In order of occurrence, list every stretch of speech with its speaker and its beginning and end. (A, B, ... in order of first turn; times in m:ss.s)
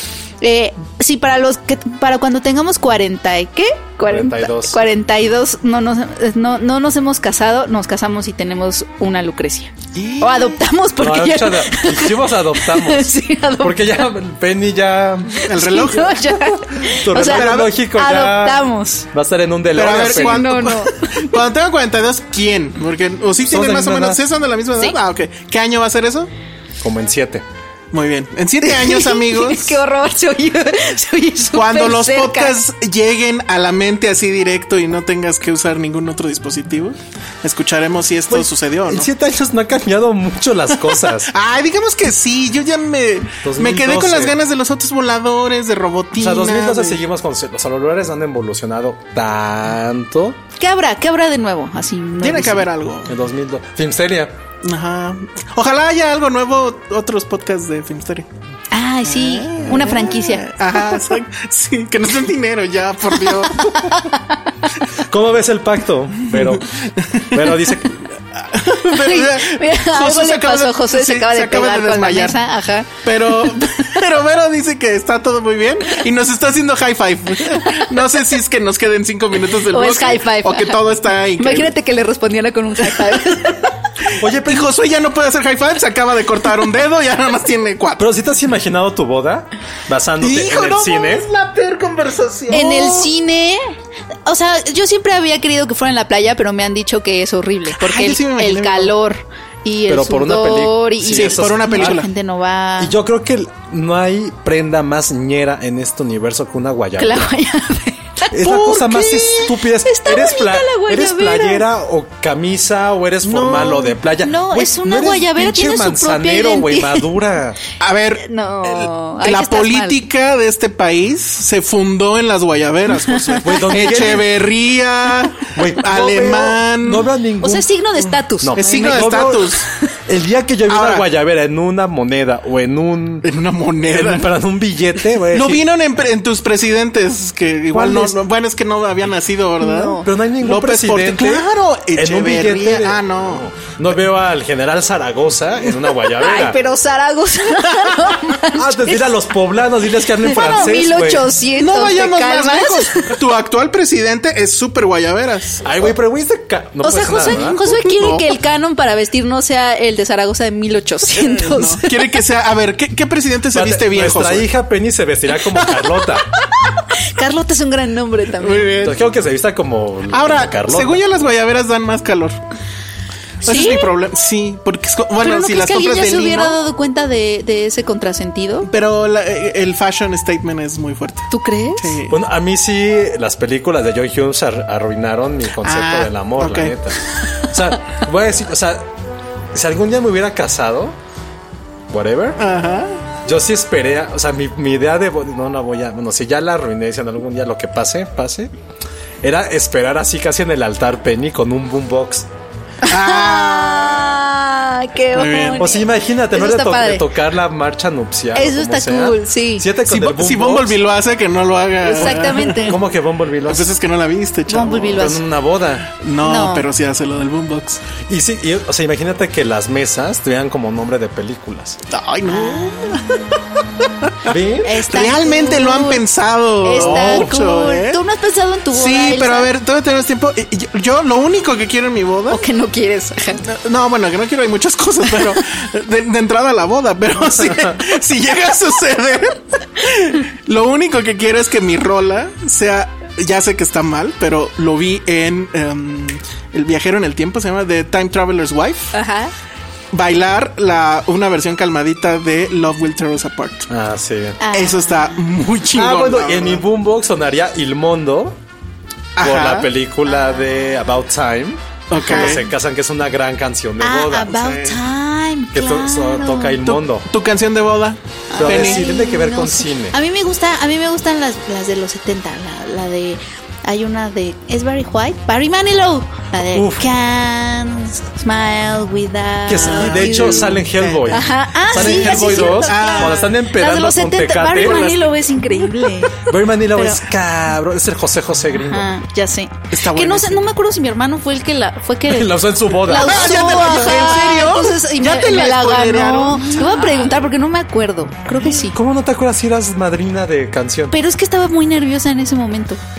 0:00.4-0:13.9 A
0:04.1-0:04.8 B
0:10.0-0:10.6 C
0:11.0-0:15.5 B
0:15.4-0:19.1 A
0:15.5-0:16.2 C
0:16.1-0:20.6 B
0:17.1-0:17.7 C
0:19.7-0:26.3 C
0:19.8-0:21.4 A
0:23.4-0:24.2 B
0:26.8-0:27.4 B
0:27.9-0:29.8 C
0:28.6-0:32.6 A
0:31.5-0:39.1 C
0:38.3-0:41.3 B
0:40.8-0:47.0 C
0:43.4-0:44.4 B
0:46.1-0:50.4 B
0:50.6-0:52.7 A
0:52.2-0:53.1 C
0:53.1-0:54.4 B
0:54.6-0:58.3 C
0:58.7-1:01.2 A
0:59.0-1:03.9 C
1:03.2-1:04.2 A
1:05.1-1:06.7 B
1:06.3-1:07.6 C
1:07.3-1:08.1 B
1:08.4-1:12.4 C
1:08.9-1:13.7 A
1:13.0-1:21.7 C
1:19.5-1:20.8 A
1:21.4-1:23.7 A
1:22.9-1:23.1 C
1:24.1-1:28.1 C
1:24.2-1:24.7 B
1:28.0-1:31.3 B
1:30.2-1:33.1 C
1:32.5-1:33.6 A
1:34.3-1:43.0 A
1:37.7-1:38.9 C
1:39.9-1:42.0 B
1:41.1-1:42.1 C
1:42.8-1:47.3 B
1:47.0-1:48.5 A
1:48.3-1:57.6 B
1:48.4-1:49.5 C
1:49.7-1:51.6 A
1:53.2-1:54.0 C
1:54.2-1:57.1 A
1:57.8-2:07.1 C
1:58.2-2:00.0 A
2:03.1-2:04.1 A
2:03.4-2:04.3 B
2:05.5-2:07.7 B
2:07.4-2:09.6 A
2:08.4-2:09.5 B
2:08.6-2:09.7 C
2:10.1-2:13.3 B
2:10.7-2:11.0 C
2:13.2-2:14.3 C
2:13.8-2:15.7 B
2:15.1-2:23.5 C
2:17.7-2:18.2 B
2:19.6-2:20.1 A
2:20.0-2:26.6 B
2:26.1-2:29.0 A
2:28.5-2:31.3 B
2:30.2-2:33.2 A
2:30.3-2:30.8 C
2:31.6-2:35.7 C
2:35.6-2:37.6 B
2:36.8-2:42.2 A
2:37.3-2:38.3 C
2:41.1-2:44.5 C
2:43.5-2:46.3 B
2:46.6-2:48.9 A
2:48.4-2:49.0 C
2:48.8-2:51.0 B
2:50.1-2:52.4 C
2:53.4-2:53.9 A
2:53.4-2:56.6 C
2:55.2-2:58.7 A
2:58.7-3:01.3 C
3:01.3-3:02.0 A
3:01.8-3:02.2 C
3:02.1-3:08.9 B
3:05.6-3:06.8 C
3:09.5-3:11.0 B
3:11.9-3:12.4 B
3:12.4-3:13.0 C
3:13.2-3:18.5 B
3:19.2-3:22.3 B
3:22.8-3:24.2 C
3:22.8-3:27.1 A
3:25.1-3:25.6 C
3:25.6-3:30.8 B
3:28.4-3:29.7 A
3:29.9-3:32.8 C
3:31.8-3:32.8 A
3:32.0-3:33.7 B
3:33.5-3:35.1 C
3:34.5-3:35.2 A
3:35.0-3:35.9 B
3:36.0-3:37.8 C
3:36.2-3:36.7 A
3:38.1-3:41.8 B
3:41.9-3:44.3 C
3:42.2-3:43.2 A
3:44.3-3:44.8 B
3:44.6-3:46.0 A
3:44.9-3:48.0 C
3:46.6-3:49.5 A
3:46.8-3:47.4 B
3:48.7-3:52.4 C
3:52.3-3:53.4 A
3:53.4-4:08.9 C
3:57.2-3:57.7 B
4:08.9-4:09.3 A
4:09.9-4:13.7 C
4:13.7-4:14.4 B
4:14.4-4:15.2 A
4:14.5-4:16.6 C
4:15.7-4:18.4 B
4:19.2-4:19.7 C
4:19.2-4:24.4 B
4:21.9-4:22.4 C
4:22.0-4:22.4 A
4:23.8-4:26.6 A
4:24.3-4:24.8 C
4:25.5-4:27.1 B
4:26.6-4:28.8 C
4:28.3-4:47.0 A
4:28.4-4:30.0 B
4:36.5-4:36.9 B
4:39.5-4:44.9 B
4:39.6-4:43.3 C
4:44.6-4:45.4 C
4:46.2-4:48.9 B
4:48.5-4:58.8 A
4:49.7-4:50.5 C
4:52.1-4:54.2 B
4:52.9-4:57.2 C
4:58.5-5:01.0 B
5:00.9-5:02.8 A